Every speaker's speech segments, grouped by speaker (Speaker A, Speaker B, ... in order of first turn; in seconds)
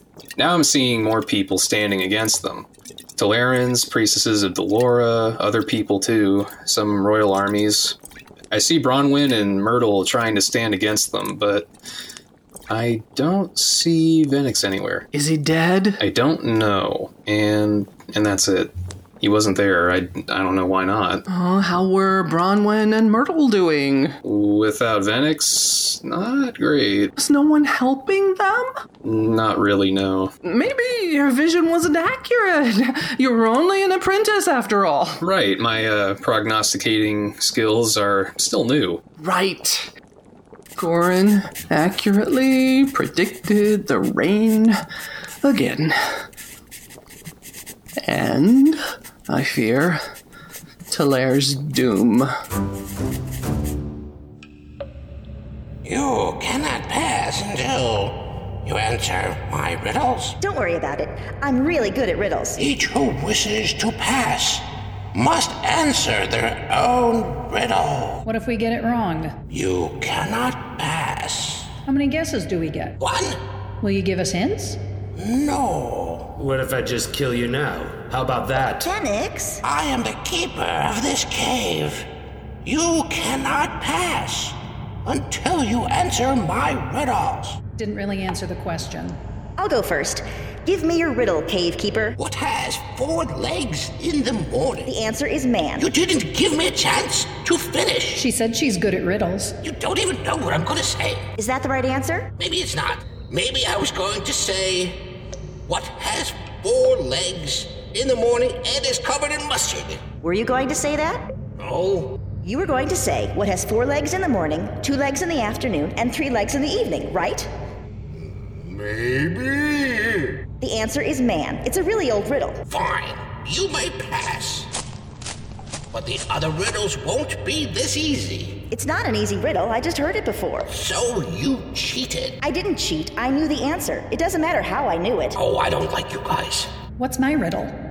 Speaker A: 0.3-8.0, 8.5-11.7, 12.7-15.1, 16.0-21.2, 24.2-27.1, 29.0-30.3, 35.2-39.0
Speaker B: 15.1-16.0, 21.3-24.2, 27.1-28.7, 30.4-35.2, 39.2-39.9, 40.8-44.8, 45.4-46.2, 48.0-50.0, 50.9-52.3
Speaker C: 55.8-60.4, 62.6-68.2, 69.5-71.7, 73.0-73.4, 75.1-76.3, 79.6-82.1, 82.6-87.6, 92.2-94.9, 95.8-98.3, 99.6-101.3, 102.4-105.0, 105.7-110.0, 111.6-112.2, 118.1-120.4, 122.7-124.7, 125.9-128.6, 130.7-132.3, 135.3-136.7
Speaker D: 60.4-62.6, 78.8-79.6, 89.6-92.2, 94.8-95.9, 101.4-102.3, 110.2-111.2, 112.4-117.5, 120.6-122.6, 128.7-130.7, 132.4-135.4
Speaker E: 68.3-69.3, 71.8-73.0, 73.8-74.8, 87.8-89.2, 98.2-99.5, 137.0-137.7
Speaker F: 76.3-78.8